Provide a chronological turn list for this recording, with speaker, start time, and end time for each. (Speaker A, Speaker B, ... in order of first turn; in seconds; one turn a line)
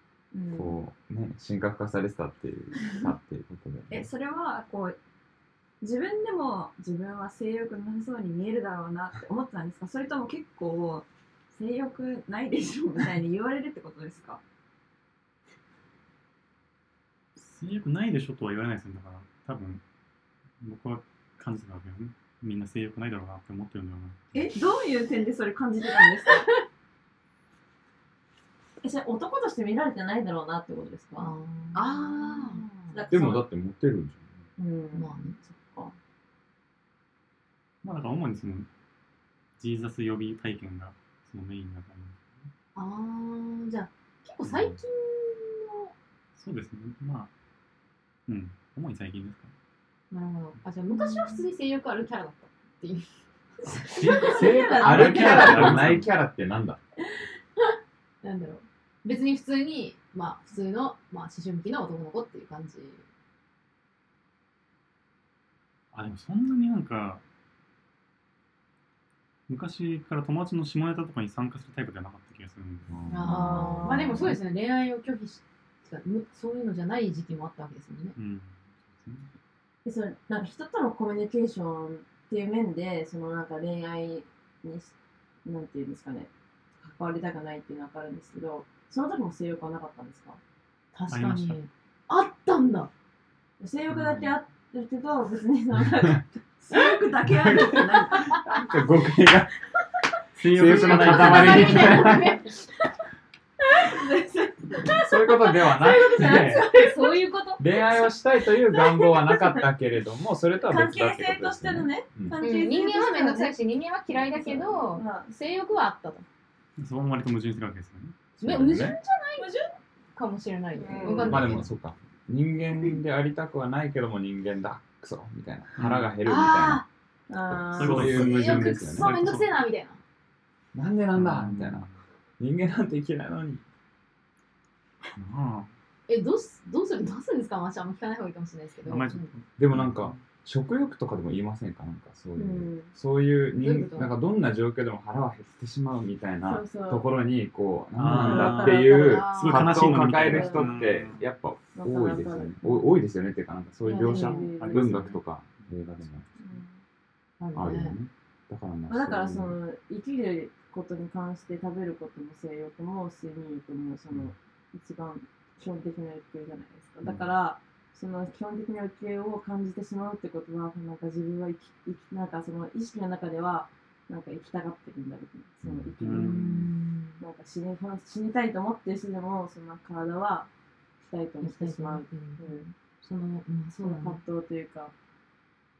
Speaker A: 0.3-0.6
Speaker B: 0.5-4.1
Speaker C: 3.9-5.0
Speaker C: 5.8-14.4
Speaker D: 17.4-19.8
Speaker D: 20.6-24.2
Speaker C: 24.3-26.5
Speaker A: 28.8-33.5
Speaker E: 31.2-33.0
Speaker B: 33.1-34.3
Speaker A: 34.6-36.0
Speaker E: 34.9-35.4
Speaker D: 37.8-38.7
Speaker D: 39.6-42.5
Speaker E: 42.8-45.9
Speaker D: 44.4-44.8
Speaker D: 46.4-47.3
Speaker D: 48.3-49.5
Speaker E: 50.1-53.1
Speaker A: 50.9-51.4
Speaker B: 53.6-56.8
Speaker E: 53.7-55.2
Speaker A: 54.0-56.0
Speaker D: 54.8-56.1
Speaker E: 58.2-63.0
Speaker D: 65.9-67.2
Speaker D: 69.5-73.2
Speaker B: 72.9-74.3
Speaker E: 73.1-78.2
Speaker A: 73.2-74.2
Speaker D: 78.2-79.3
Speaker A: 79.8-86.3
Speaker A: 86.8-90.4
Speaker E: 90.9-92.9
Speaker D: 91.1-91.6
Speaker A: 93.6-98.6
Speaker D: 93.9-94.4
Speaker C: 96.7-98.4
Speaker B: 98.5-99.5
Speaker D: 100.4-102.0
Speaker B: 100.4-102.4
Speaker E: 100.6-102.7
Speaker A: 103.7-105.1
Speaker B: 105.0-106.7
Speaker A: 105.7-107.2
Speaker E: 105.7-107.8
Speaker B: 107.6-112.4
Speaker A: 108.7-109.6
Speaker A: 110.7-113.5
Speaker E: 112.4-116.2
Speaker A: 114.1-115.3
Speaker D: 116.8-118.2
Speaker E: 118.4-119.5
Speaker B: 118.4-119.0
Speaker A: 119.4-119.7
Speaker E: 120.2-121.7
Speaker A: 120.8-121.6
Speaker C: 120.9-121.2
Speaker B: 121.1-126.8
Speaker D: 125.8-126.2
Speaker E: 126.2-126.8
Speaker A: 127.3-128.2
Speaker D: 127.7-129.6
Speaker B: 127.8-129.1
Speaker E: 128.0-130.0
Speaker B: 130.7-131.9
Speaker D: 131.1-132.0
Speaker B: 132.4-133.6
Speaker D: 135.2-135.7
Speaker E: 136.1-139.3
Speaker D: 138.9-140.2
Speaker B: 139.6-156.2
Speaker A: 142.4-142.9
Speaker E: 143.6-144.2
Speaker A: 146.4-147.1
Speaker D: 148.0-151.2
Speaker A: 148.0-149.2
Speaker E: 148.7-150.1
Speaker A: 150.1-150.9
Speaker A: 151.8-152.8
Speaker A: 153.8-155.2
Speaker E: 153.9-154.7
Speaker D: 154.6-156.5
Speaker A: 156.4-156.8
Speaker E: 157.4-158.0
Speaker B: 157.6-159.6
Speaker A: 158.9-176.6
Speaker B: 167.0-167.3
Speaker B: 175.6-176.3
Speaker D: 176.0-176.7
Speaker E: 176.2-177.2
Speaker A: 177.2-180.5
Speaker A: 181.0-182.7
Speaker E: 181.4-184.2
Speaker A: 183.8-184.9